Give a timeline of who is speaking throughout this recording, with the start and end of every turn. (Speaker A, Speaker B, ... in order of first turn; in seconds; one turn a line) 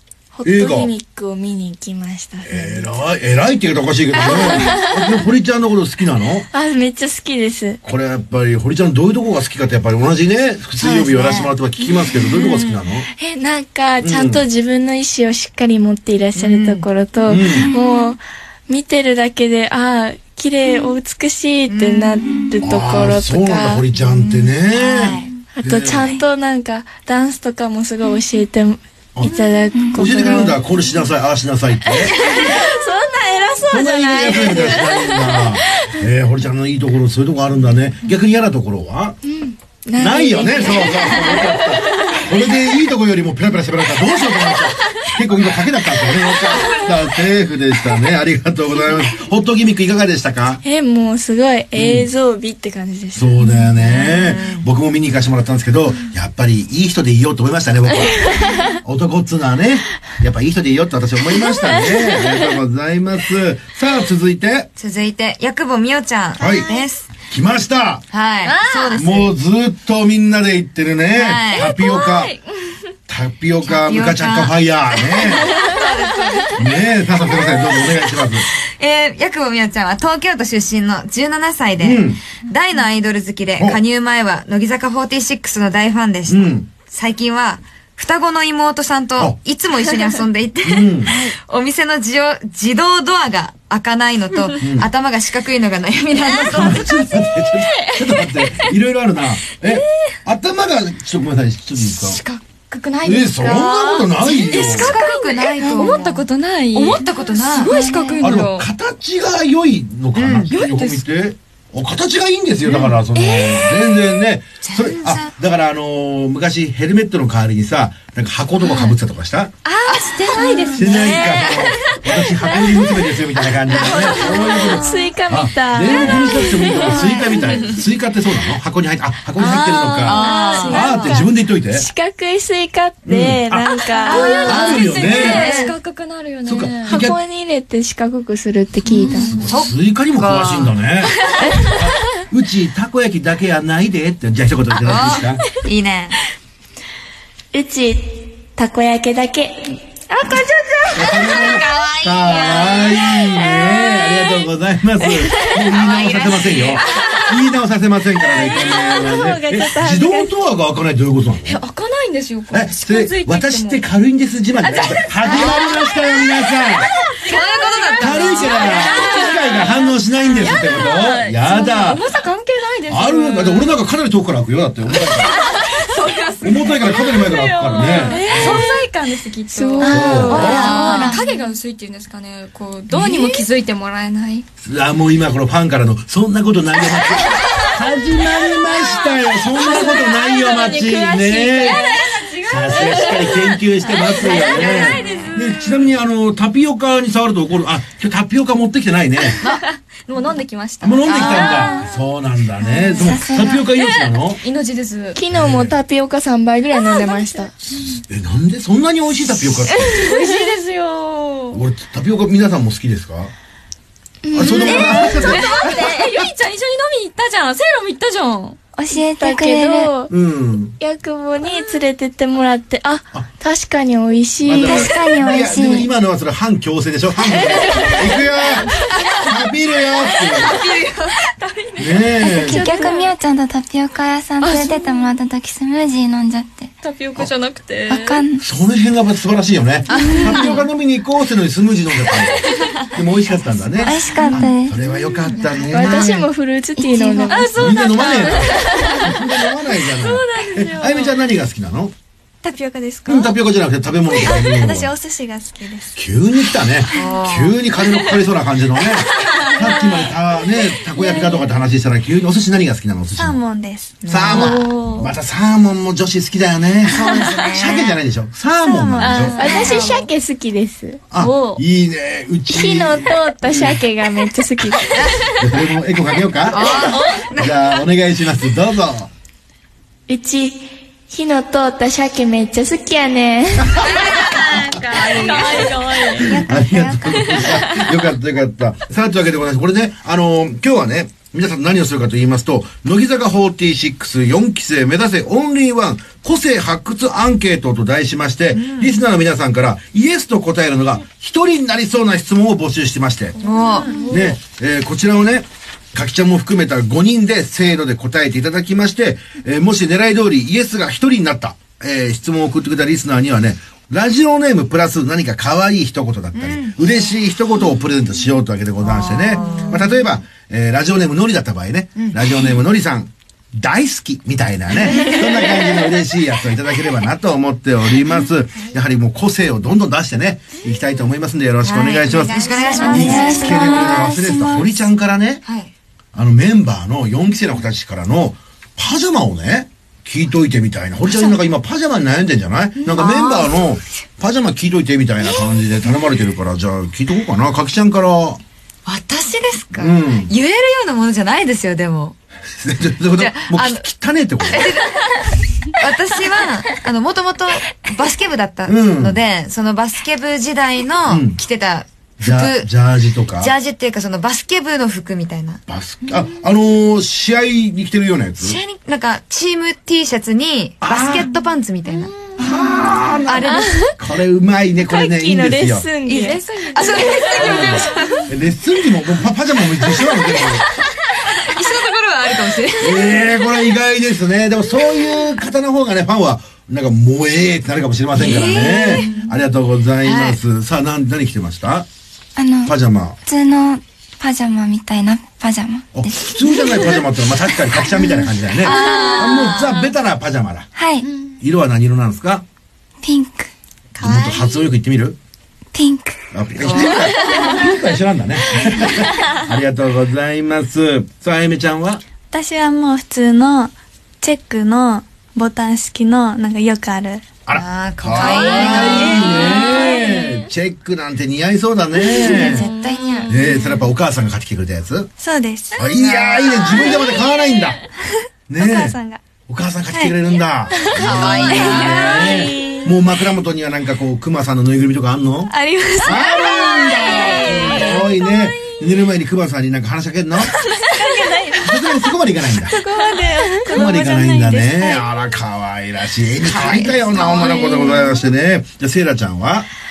Speaker A: 0.3-3.0
Speaker B: 0.5-0.9
Speaker B: 2.5-6.5
Speaker A: 6.5-7.8
Speaker B: 7.8-13.1
Speaker C: 10.8-11.6
Speaker C: 12.3-12.7
Speaker A: 13.2-23.8
Speaker B: 14.0-14.4
Speaker C: 16.4-16.9
Speaker B: 17.3-17.7
Speaker D: 17.4-18.1
Speaker C: 21.7-22.2
Speaker B: 22.6-26.1
Speaker C: 24.0-25.3
Speaker A: 25.5-30.6
Speaker D: 29.7-30.0
Speaker B: 29.9-32.3
Speaker A: 31.9-35.9
Speaker B: 33.7-39.2
Speaker A: 39.2-42.2
Speaker B: 40.0-50.6
Speaker A: 50.6-53.4
Speaker B: 51.7-52.1
Speaker B: 53.1-64.7
Speaker C: 53.9-54.6
Speaker C: 64.8-67.1
Speaker B: 66.4-66.7
Speaker B: 67.3-68.0
Speaker C: 68.1-69.3
Speaker E: 68.5-69.0
Speaker B: 69.0-72.4
Speaker C: 71.1-71.8
Speaker E: 71.6-72.5
Speaker B: 73.1-75.6
Speaker C: 73.6-76.6
Speaker E: 75.6-76.5
Speaker B: 76.6-78.5
Speaker C: 78.8-96.9
Speaker B: 81.8-82.2
Speaker B: 86.3-86.7
Speaker B: 90.6-91.2
Speaker B: 94.6-94.9
Speaker E: 96.4-96.7
Speaker B: 96.5-102.2
Speaker E: 97.2-98.5
Speaker E: 99.6-100.1
Speaker E: 101.9-108.7
Speaker B: 103.0-105.0
Speaker C: 103.8-107.7
Speaker D: 107.7-108.3
Speaker B: 108.2-119.5
Speaker C: 110.2-110.5
Speaker E: 110.5-111.0
Speaker E: 112.7-114.1
Speaker C: 114.6-115.3
Speaker E: 119.7-123.1
Speaker C: 119.9-120.9
Speaker B: 120.8-131.9
Speaker E: 123.7-124.8
Speaker C: 123.7-125.0
Speaker A: 124.2-127.4
Speaker E: 127.1-127.7
Speaker E: 129.4-131.2
Speaker C: 129.4-131.2
Speaker A: 130.6-134.5
Speaker B: 133.1-133.7
Speaker E: 134.0-137.0
Speaker C: 134.1-135.7
Speaker B: 134.4-135.7
Speaker B: 136.4-137.2
Speaker A: 136.9-139.3
Speaker E: 139.0-139.5
Speaker B: 139.2-145.4
Speaker C: 139.3-140.7
Speaker E: 141.2-141.6
Speaker C: 144.8-146.2
Speaker A: 147.5-149.9
Speaker E: 150.2-151.0
Speaker B: 150.9-161.6
Speaker C: 151.1-152.8
Speaker C: 155.7-156.8
Speaker E: 155.8-157.3
Speaker A: 158.3-160.3
Speaker E: 161.4-163.8
Speaker B: 162.5-166.9
Speaker E: 164.6-173.8
Speaker C: 165.3-165.6
Speaker C: 167.2-169.2
Speaker B: 168.0-172.1
Speaker B: 172.9-175.4
Speaker E: 174.9-184.5
Speaker B: 176.4-178.7
Speaker A: 178.0-178.6
Speaker A: 179.5-181.2
Speaker D: 179.8-181.2
Speaker B: 179.9-180.8
Speaker C: 180.3-181.1
Speaker B: 182.9-183.3
Speaker B: 184.6-191.9
Speaker E: 187.4-187.7
Speaker E: 188.3-195.9
Speaker B: 192.5-199.4
Speaker E: 199.4-201.9
Speaker B: 200.8-204.4
Speaker C: 201.1-201.7
Speaker E: 202.6-203.2
Speaker D: 203.0-203.7
Speaker E: 203.8-205.2
Speaker A: 205.2-207.5
Speaker B: 205.3-205.8
Speaker E: 206.7-207.9
Speaker B: 208.0-210.1
Speaker E: 209.5-211.7
Speaker B: 211.5-213.3
Speaker A: 214.2-215.4
Speaker B: 214.3-216.1
Speaker E: 214.4-218.6
Speaker D: 218.8-219.9
Speaker A: 218.9-220.1
Speaker B: 220.1-220.8
Speaker A: 220.8-225.0
Speaker B: 224.4-230.6
Speaker D: 224.6-225.9
Speaker E: 227.3-233.1
Speaker B: 231.8-232.7
Speaker D: 232.2-236.7
Speaker E: 234.4-235.1
Speaker E: 236.8-238.2
Speaker D: 237.9-238.4
Speaker B: 238.4-246.1
Speaker E: 239.9-240.7
Speaker E: 242.5-242.8
Speaker E: 243.8-244.5
Speaker D: 243.8-244.8
Speaker E: 245.1-246.2
Speaker A: 245.7-247.7
Speaker D: 246.8-247.5
Speaker E: 247.3-249.3
Speaker B: 247.6-251.9
Speaker E: 249.9-251.2
Speaker F: 252.4-253.4
Speaker B: 253.1-254.9
Speaker F: 254.2-256.0
Speaker B: 256.0-263.4
Speaker C: 256.9-257.6
Speaker E: 259.4-259.9
Speaker E: 260.9-261.5
Speaker F: 263.2-264.0
Speaker C: 264.0-264.6
Speaker B: 264.1-269.5
Speaker E: 264.3-265.0
Speaker C: 266.8-268.0
Speaker F: 268.6-269.6
Speaker A: 269.0-271.6
Speaker E: 269.1-269.9
Speaker C: 269.4-269.9
Speaker B: 271.1-273.8
Speaker E: 271.2-271.6
Speaker A: 272.5-275.3
Speaker B: 275.4-279.1
Speaker C: 276.5-277.6
Speaker E: 276.7-277.3
Speaker A: 280.1-283.8
Speaker B: 283.6-283.9
Speaker C: 283.8-285.7
Speaker E: 284.4-286.4
Speaker A: 285.2-286.3
Speaker B: 286.2-303.4
Speaker D: 286.2-287.5
Speaker C: 298.5-299.0
Speaker E: 303.4-304.4
Speaker C: 303.4-304.1
Speaker B: 304.1-335.4
Speaker C: 316.4-316.9
Speaker C: 318.8-320.0
Speaker C: 322.0-322.3
Speaker C: 324.8-325.6
Speaker C: 331.6-334.0
Speaker E: 332.7-333.3
Speaker D: 332.7-334.1
Speaker F: 332.8-334.8
Speaker C: 335.4-335.7
Speaker B: 336.1-348.4
Speaker C: 341.1-341.4
Speaker C: 342.8-343.6
Speaker C: 348.9-352.2
Speaker B: 349.8-350.3
Speaker B: 352.6-354.7
Speaker C: 353.2-353.9
Speaker C: 354.4-355.1
Speaker C: 355.7-362.7
Speaker B: 358.7-359.2
Speaker B: 361.1-361.4
Speaker B: 362.2-363.5
Speaker C: 363.4-365.6
Speaker B: 365.7-368.6
Speaker C: 368.4-372.1
Speaker B: 370.8-371.3
Speaker B: 372.4-375.9
Speaker C: 373.3-373.8
Speaker A: 374.9-377.0
Speaker E: 376.1-378.2
Speaker C: 376.7-378.1
Speaker B: 377.4-380.7
Speaker C: 381.3-383.2
Speaker B: 382.8-391.9
Speaker C: 388.2-389.3
Speaker C: 390.0-390.4
Speaker D: 392.4-397.0
Speaker B: 392.6-393.2
Speaker B: 395.9-400.7
Speaker C: 398.6-399.9
Speaker D: 400.8-401.1
Speaker B: 401.4-402.4
Speaker D: 403.0-403.5
Speaker B: 404.0-405.2
Speaker D: 405.7-406.2
Speaker B: 406.3-412.0
Speaker C: 406.6-407.6
Speaker F: 412.3-417.3
Speaker B: 417.5-422.7
Speaker C: 417.5-419.7
Speaker E: 418.2-420.4
Speaker E: 422.1-423.9
Speaker D: 422.2-423.2
Speaker B: 423.3-425.1
Speaker F: 425.2-425.8
Speaker B: 425.7-427.8
Speaker C: 426.0-426.8
Speaker E: 426.6-427.6
Speaker B: 428.5-440.6
Speaker F: 428.6-429.2
Speaker F: 429.9-430.2
Speaker C: 431.0-432.2
Speaker A: 431.5-432.9
Speaker E: 431.5-432.8
Speaker F: 435.5-436.4
Speaker E: 436.5-438.9
Speaker A: 437.2-437.8
Speaker E: 441.0-441.6
Speaker B: 441.6-442.8
Speaker E: 442.7-444.0
Speaker A: 442.9-445.0
Speaker B: 443.7-449.7
Speaker C: 446.4-447.6
Speaker E: 447.3-448.1